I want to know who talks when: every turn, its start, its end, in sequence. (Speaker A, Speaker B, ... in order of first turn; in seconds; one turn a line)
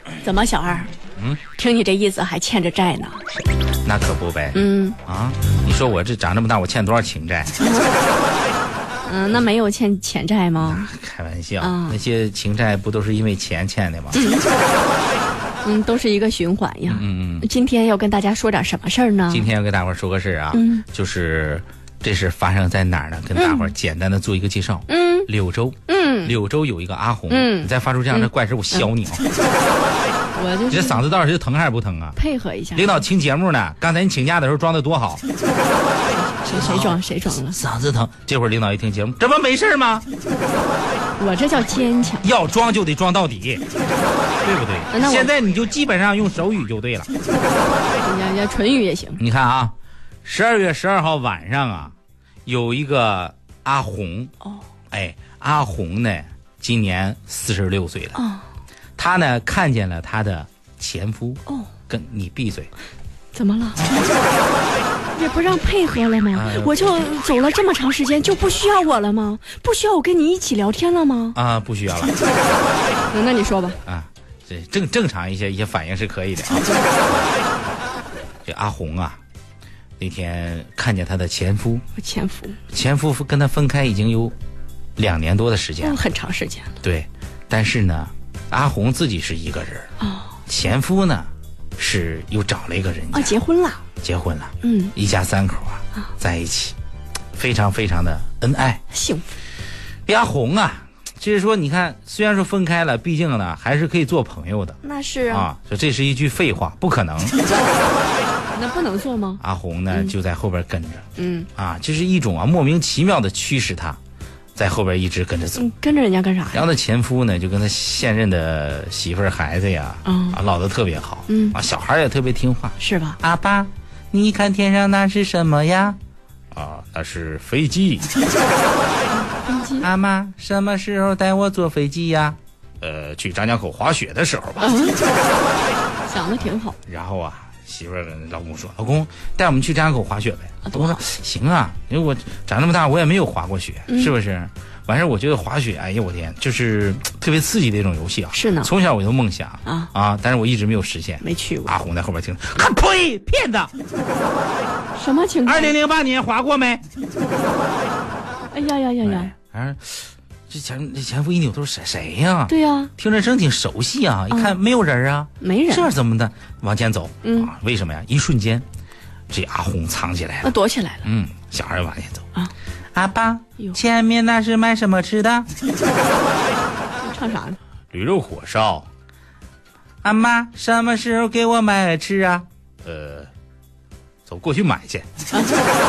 Speaker A: 0.2-0.9
Speaker A: 1.5-3.3
Speaker B: 3.9-7.5
Speaker A: 4.5-5.0
Speaker A: 7.6-7.9
Speaker A: 9.1-10.8
Speaker B: 10.6-14.2
Speaker A: 11.6-12.0
Speaker A: 14.1-14.5
Speaker A: 15.6-19.5
Speaker B: 16.9-17.5
Speaker B: 19.3-29.2
Speaker A: 20.5-20.8
Speaker A: 23.4-23.7
Speaker A: 24.9-25.3
Speaker A: 25.9-26.3
Speaker A: 27.3-28.9
Speaker A: 30.3-31.0
Speaker B: 30.7-32.2
Speaker A: 32.2-33.0
Speaker B: 32.8-35.2
Speaker A: 36.1-37.6
Speaker B: 36.5-40.1
Speaker A: 41.2-42.2
Speaker B: 42.2-43.6
Speaker B: 44.4-47.1
Speaker A: 44.9-45.3
Speaker A: 48.0-49.2
Speaker B: 49.2-51.9
Speaker B: 52.5-54.3
Speaker B: 54.9-58.2
Speaker A: 58.2-58.4
Speaker B: 59.0-62.7
Speaker A: 63.3-63.9
Speaker A: 65.1-71.4
Speaker B: 66.3-66.9
Speaker B: 71.3-72.3
Speaker A: 73.1-73.8
Speaker B: 73.9-77.3
Speaker B: 78.5-79.2
Speaker B: 80.0-81.8
Speaker A: 82.0-82.6
Speaker B: 82.7-84.3
Speaker B: 85.0-86.0
Speaker A: 85.8-86.7
Speaker B: 86.8-89.9
Speaker A: 90.0-90.3
Speaker B: 90.5-93.4
Speaker A: 93.1-93.8
Speaker B: 94.0-96.8
Speaker A: 94.6-94.9
Speaker B: 97.3-98.8
Speaker A: 98.9-99.3
Speaker B: 100.1-104.8
Speaker A: 104.8-105.5
Speaker B: 105.3-107.4
Speaker A: 107.5-108.0
Speaker A: 108.5-110.1
Speaker B: 109.4-114.0
Speaker A: 111.2-111.5
Speaker B: 114.6-115.7
Speaker A: 115.6-116.7
Speaker B: 116.5-126.0
Speaker A: 120.0-120.4
Speaker A: 121.3-121.6
Speaker A: 122.8-123.2
Speaker B: 126.5-128.1
Speaker A: 129.1-129.9
Speaker B: 129.8-134.8
Speaker A: 134.6-135.0
Speaker A: 136.1-136.8
Speaker B: 136.9-153.7
Speaker A: 140.7-141.0
Speaker A: 143.9-144.1
Speaker A: 148.3-148.7
Speaker A: 149.7-149.9
Speaker A: 151.2-151.7
Speaker A: 154.9-155.8
Speaker B: 155.5-156.8
Speaker A: 158.5-159.3
Speaker B: 159.0-168.7
Speaker A: 162.5-162.9
Speaker A: 164.3-164.6
Speaker A: 165.4-165.9
Speaker A: 167.2-167.5
Speaker B: 169.3-172.3
Speaker A: 170.4-171.1
Speaker B: 172.9-175.5
Speaker A: 177.0-177.6
Speaker B: 177.9-178.9
Speaker B: 180.0-183.3
Speaker B: 184.3-185.1
Speaker A: 185.3-185.7